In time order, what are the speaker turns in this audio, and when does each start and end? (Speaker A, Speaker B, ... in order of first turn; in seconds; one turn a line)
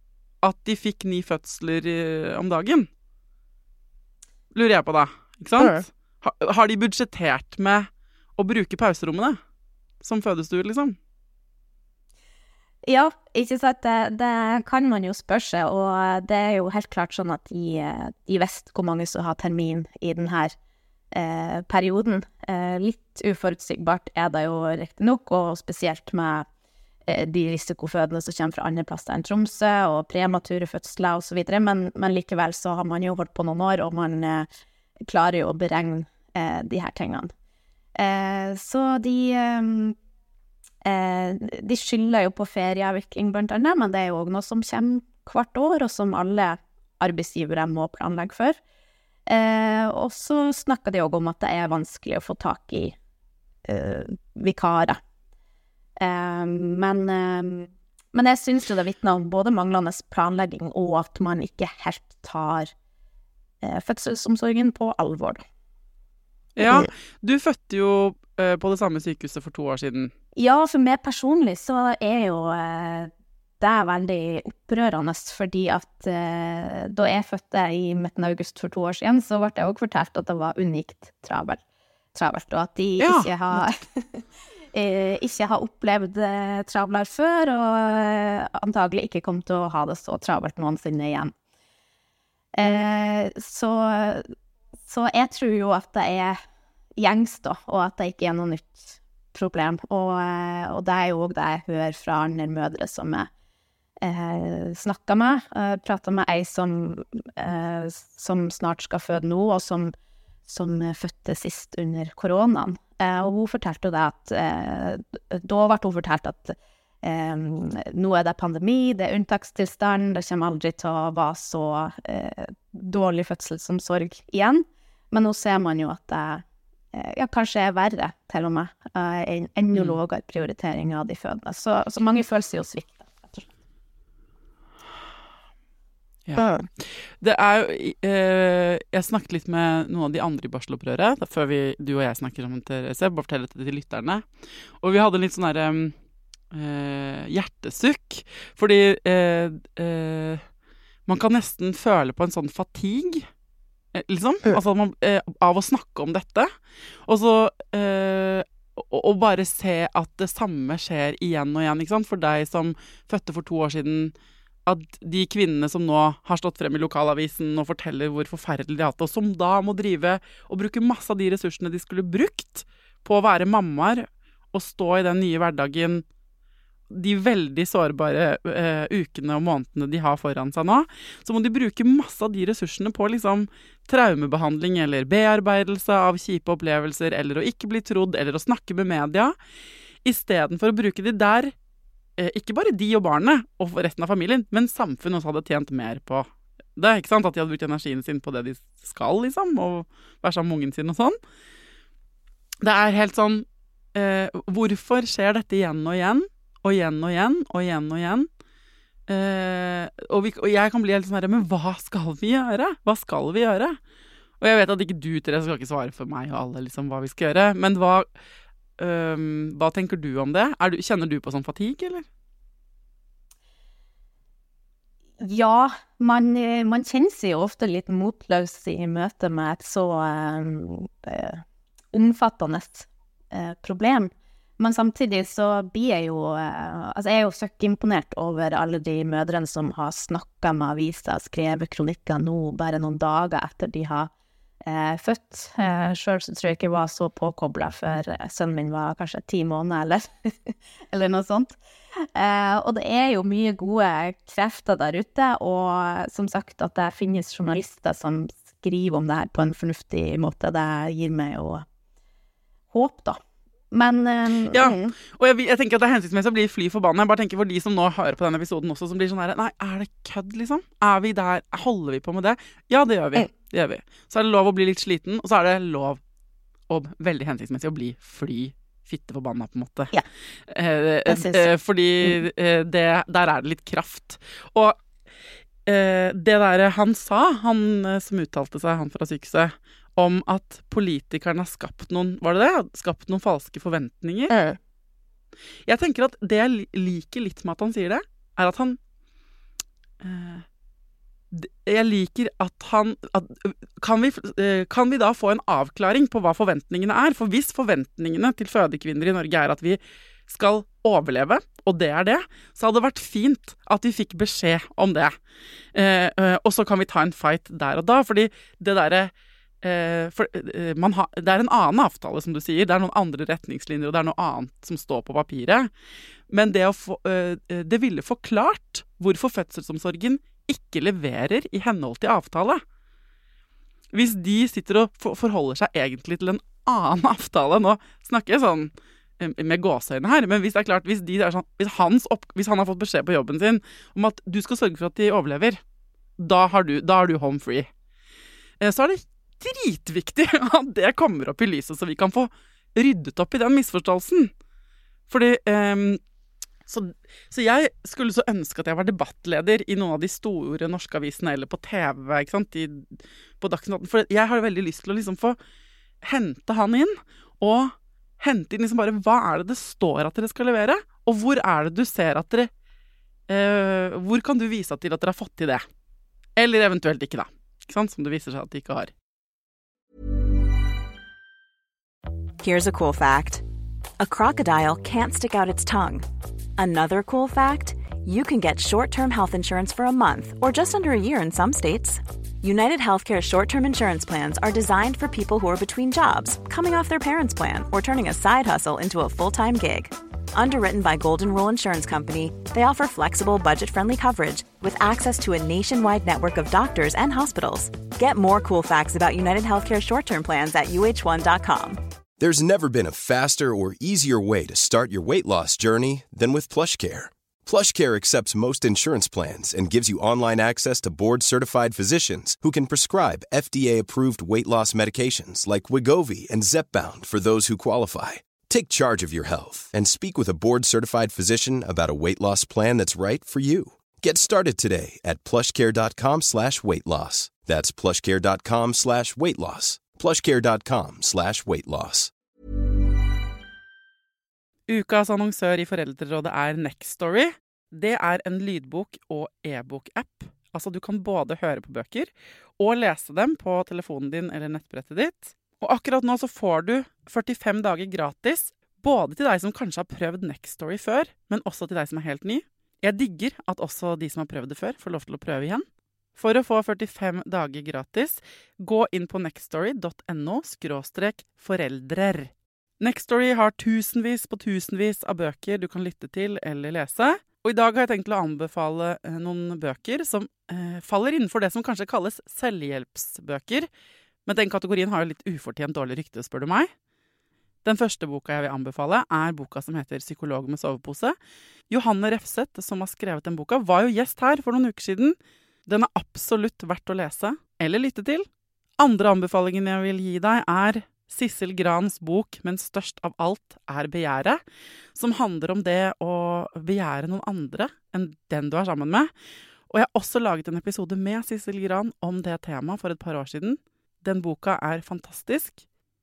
Speaker A: 0.4-2.9
Speaker A: 4.5-9.4
Speaker B: 5.6-5.8
Speaker A: 10.0-10.9
Speaker B: 12.8-20.5
Speaker B: 21.1-26.4
Speaker B: 27.1-34.5
Speaker B: 35.0-37.3
Speaker B: 38.0-39.9
Speaker B: 40.8-48.6
Speaker B: 49.3-53.0
Speaker B: 53.6-55.0
Speaker B: 56.0-62.7
Speaker B: 63.6-65.4
Speaker A: 66.6-70.1
Speaker B: 66.6-66.9
Speaker B: 70.3-81.6
Speaker B: 82.1-91.3
Speaker A: 83.0-83.6
Speaker B: 92.5-94.3
Speaker B: 94.9-96.4
Speaker B: 97.0-103.3
Speaker B: 104.0-109.9
Speaker B: 110.5-133.5
Speaker A: 129.7-130.0
Speaker B: 136.3-136.7
Speaker A: 137.2-144.2
Speaker A: 144.8-145.9
Speaker A: 146.5-150.4
Speaker A: 151.1-153.3
Speaker A: 153.9-156.5
Speaker A: 157.1-164.1
Speaker A: 164.7-176.0
Speaker A: 176.9-189.3
Speaker A: 190.0-191.5
Speaker A: 192.2-201.2
Speaker A: 202.6-208.3
Speaker A: 209.1-213.8
Speaker A: 214.4-218.1
Speaker A: 218.8-222.1
Speaker B: 225.2-231.4
Speaker B: 231.9-244.1
Speaker B: 244.6-251.6
Speaker B: 252.1-261.6
Speaker B: 262.7-263.2
Speaker B: 263.7-264.9
Speaker A: 264.5-276.0
Speaker A: 276.7-279.9
Speaker A: 280.5-284.8
Speaker B: 281.1-281.4
Speaker A: 285.6-294.3
Speaker B: 294.3-294.6
Speaker A: 295.7-298.8
Speaker A: 300.0-300.4
Speaker A: 301.3-315.1
Speaker A: 315.7-325.7
Speaker A: 326.3-332.6
Speaker A: 333.9-345.6
Speaker A: 346.2-347.7
Speaker A: 348.6-354.3
Speaker A: 355.1-356.0
Speaker A: 356.7-362.9
Speaker A: 363.4-365.4
Speaker A: 366.0-372.5
Speaker A: 373.3-375.6
Speaker A: 376.4-378.9
Speaker C: 382.4-383.4
Speaker C: 384.0-386.0
Speaker C: 386.6-411.8
Speaker D: 412.2-442.1
Speaker A: 444.7-483.7
Speaker A: 484.2-486.7
Speaker A: 487.6-491.1
Speaker A: 491.7-495.1
Speaker A: 495.7-498.3
Speaker A: 498.8-504.4
Speaker A: 504.9-509.1
Speaker A: 509.7-515.6